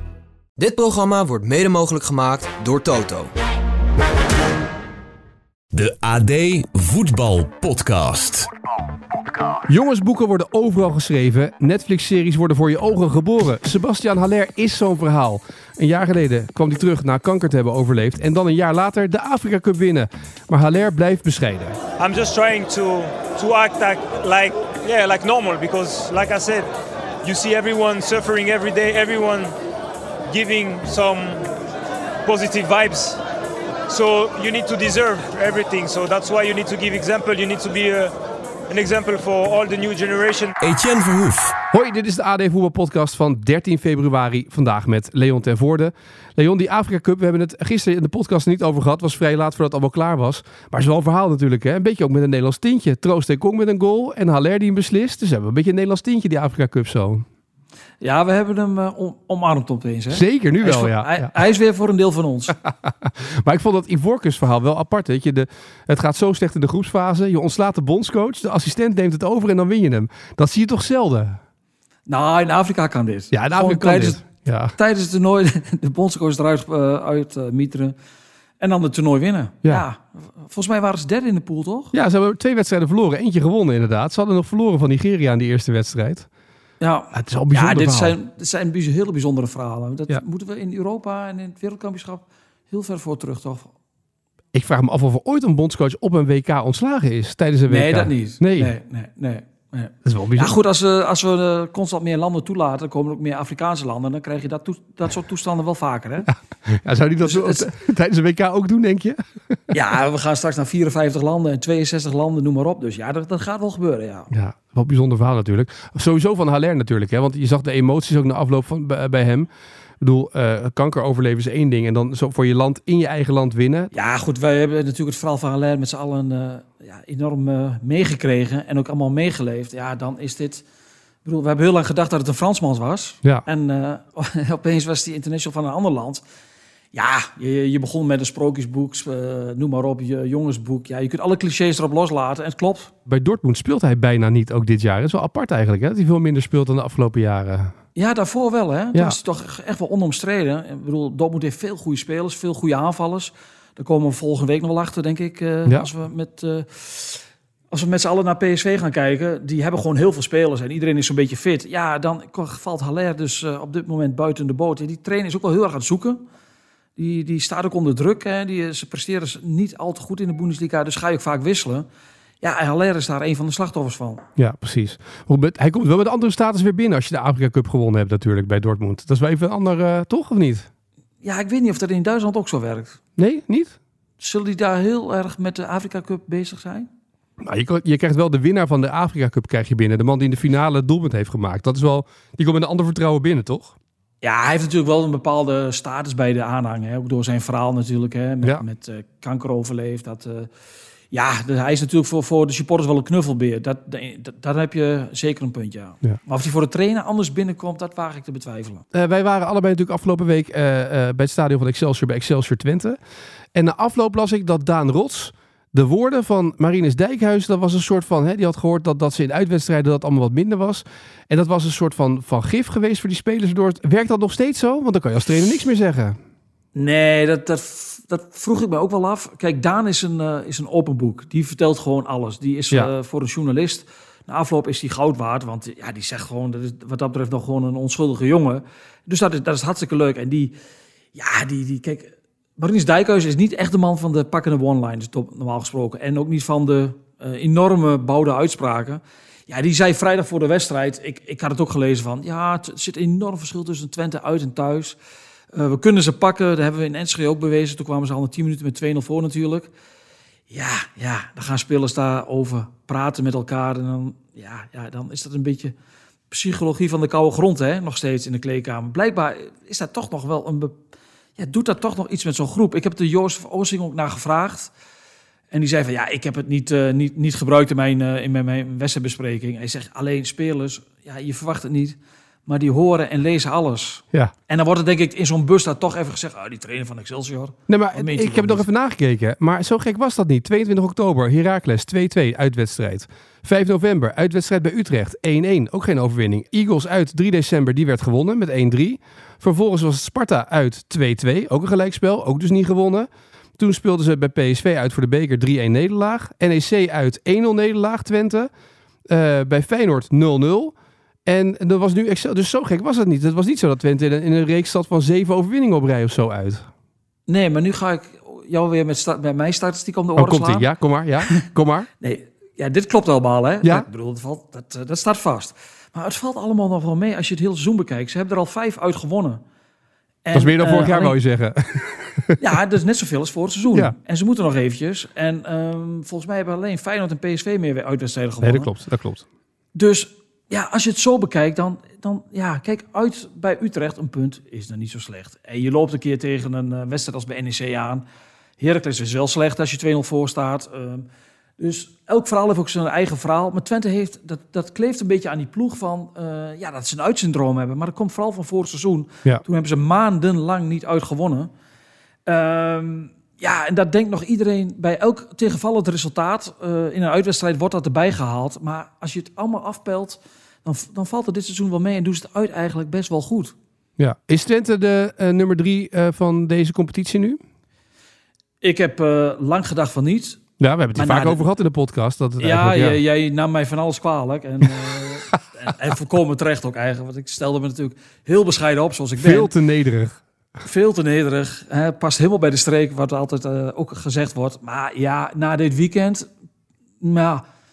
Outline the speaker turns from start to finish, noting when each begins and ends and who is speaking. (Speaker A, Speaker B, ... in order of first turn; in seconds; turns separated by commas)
Speaker A: 0.6-3.3, Speaker B: 5.7-8.5, Speaker C: 9.7-21.8, Speaker D: 22.0-29.5, Speaker D: 30.3-31.5, Speaker D: 32.2-33.2, Speaker D: 33.9-38.1, Speaker D: 38.7-40.5, Speaker B: 40.6-41.6, Speaker C: 41.7-57.2, Speaker E: 58.0-62.5, Speaker C: 60.1-61.4, Speaker C: 62.6-71.4, Speaker E: 72.1-74.2, Speaker C: 73.3-74.7, Speaker E: 74.8-77.9, Speaker E: 78.6-81.9, Speaker C: 81.9-86.3, Speaker E: 86.8-93.7, Speaker C: 87.1-88.2, Speaker C: 94.5-98.7, Speaker E: 97.7-106.3, Speaker C: 100.0-100.5, Speaker C: 106.2-109.6, Speaker E: 107.2-107.7, Speaker E: 109.7-114.3, Speaker C: 114.3-119.5, Speaker C: 120.0-123.9, Speaker E: 123.9-130.6, Speaker E: 131.2-136.2, Speaker E: 136.9-142.9, Speaker C: 143.1-147.7, Speaker E: 147.9-166.2, Speaker E: 167.0-171.8, Speaker E: 172.4-174.2, Speaker C: 174.4-180.7, Speaker E: 181.2-183.0, Speaker C: 183.2-183.8, Speaker E: 184.2-186.9, Speaker C: 187.4-193.7, Speaker E: 194.2-200.5, Speaker E: 201.1-208.8, Speaker C: 208.9-213.0, Speaker C: 213.5-226.2, Speaker E: 226.7-240.5, Speaker E: 241.1-255.0, Speaker E: 255.5-259.7, Speaker E: 260.5-265.7, Speaker E: 266.3-270.8, Speaker E: 271.4-274.7, Speaker E: 275.5-288.6, Speaker C: 287.7-308.5, Speaker C: 309.1-316.7, Speaker E: 317.3-320.6, Speaker C: 320.1-321.9, Speaker E: 322.0-329.4, Speaker E: 330.2-331.1, Speaker C: 330.3-332.4, Speaker E: 332.4-338.7, Speaker C: 338.4-339.2, Speaker E: 339.7-348.0, Speaker E: 348.6-351.1, Speaker E: 351.6-361.5, Speaker E: 362.2-373.5, Speaker C: 374.0-377.4, Speaker E: 378.6-380.4, Speaker C: 380.6-383.0, Speaker E: 381.0-381.4, Speaker E: 382.4-389.5, Speaker C: 389.2-390.2, Speaker E: 390.6-396.3, Speaker E: 397.0-397.4